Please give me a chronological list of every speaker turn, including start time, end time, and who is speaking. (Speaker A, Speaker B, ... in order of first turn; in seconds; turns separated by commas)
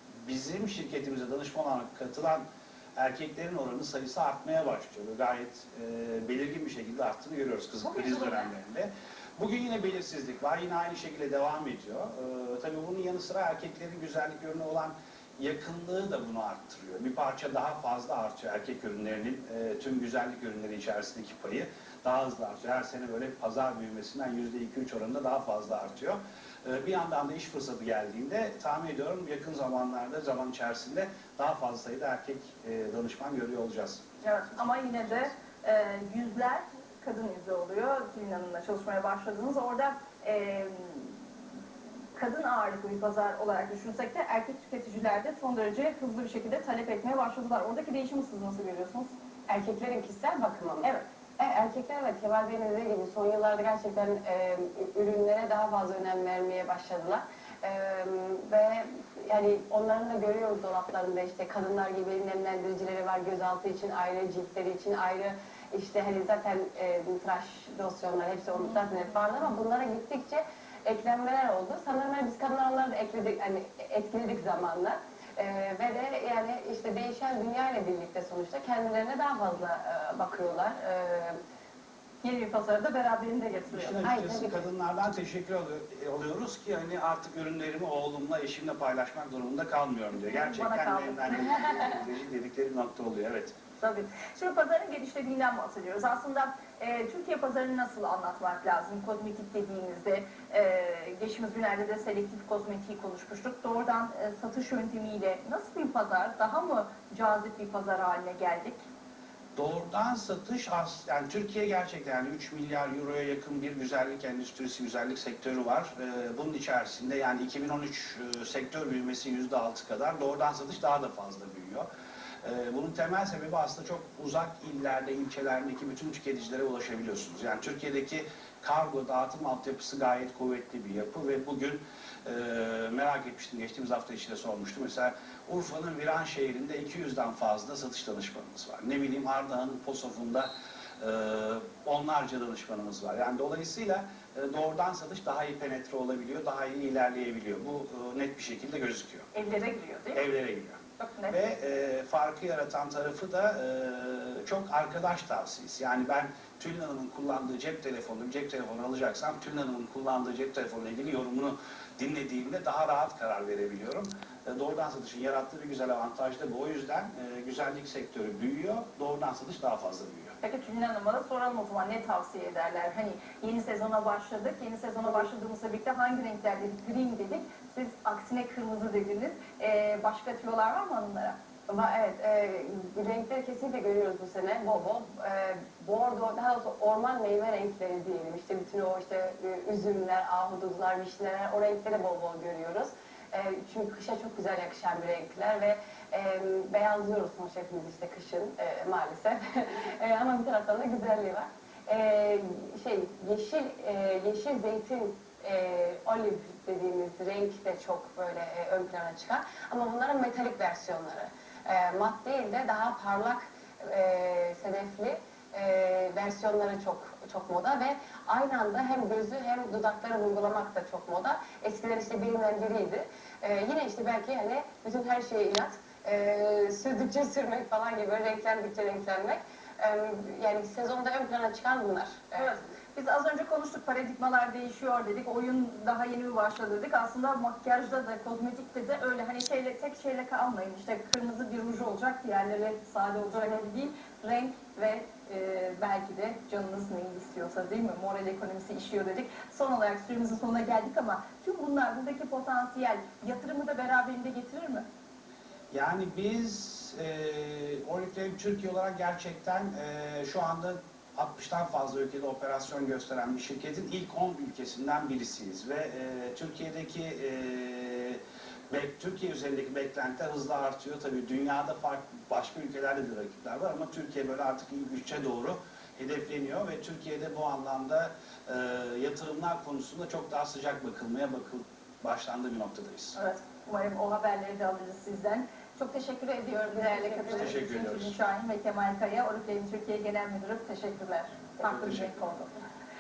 Speaker A: 0.2-2.5, Speaker A: 3.0-34.0, Speaker B: 7.8-8.5, Speaker B: 34.2-41.2, Speaker B: 42.2-49.1, Speaker C: 49.5-81.4, Speaker B: 82.2-84.0, Speaker A: 83.7-93.6, Speaker C: 84.0-84.7, Speaker B: 90.2-91.9, Speaker B: 93.8-108.8, Speaker A: 109.6-121.9, Speaker A: 122.4-149.3, Speaker B: 149.3-150.2, Speaker A: 150.1-170.4, Speaker B: 151.0-151.4, Speaker B: 170.4-181.4, Speaker C: 181.7-232.6, Speaker B: 232.3-254.8, Speaker A: 255.7-268.2, Speaker A: 268.7-283.2, Speaker B: 283.2-292.5, Speaker C: 286.6-287.5, Speaker A: 287.3-288.1, Speaker A: 291.7-292.0